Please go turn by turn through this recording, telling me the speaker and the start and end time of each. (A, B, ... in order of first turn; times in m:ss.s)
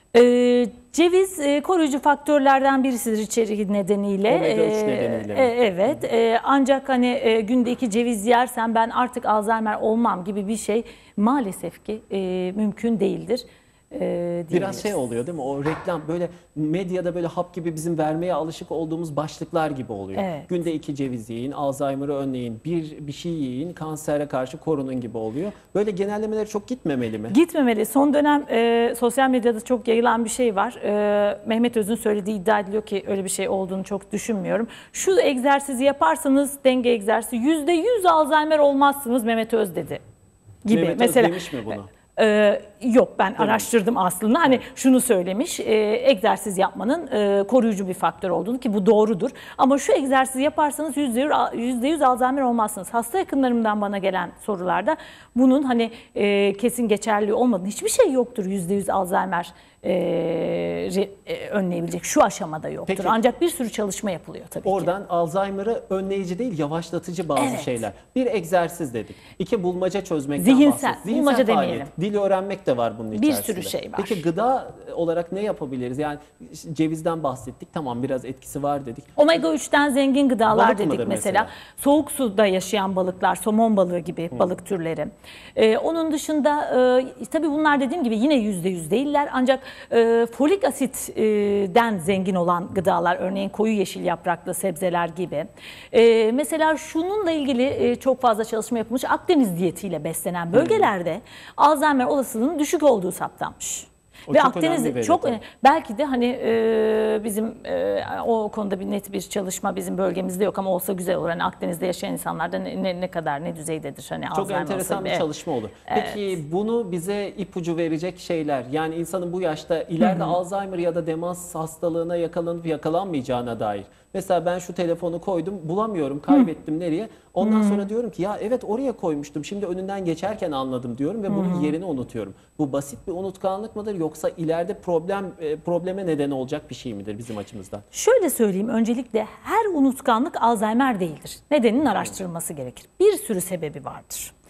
0:00.1-0:15.0 A
0:04.3-0:05.5 B
0:14.5-0:27.4 B
0:20.1-0:20.5 A
0:27.3-0:40.0 A
0:40.6-0:41.4 A
0:40.7-0:41.9 B
0:42.2-1:04.9 A
0:43.4-0:43.7 B
1:02.9-1:03.2 B
1:04.6-1:19.2 B
1:07.4-1:07.8 A
1:10.4-1:11.9 A
1:13.1-1:14.2 A
1:19.2-1:55.2 A
1:20.5-1:21.5 B
1:40.5-1:40.9 B
1:44.3-1:45.4 B
1:54.3-2:17.8 B
1:55.9-1:56.4 A
2:00.0-2:00.3 A
2:07.4-2:07.8 A
2:11.3-2:11.7 A
2:17.9-2:24.3 A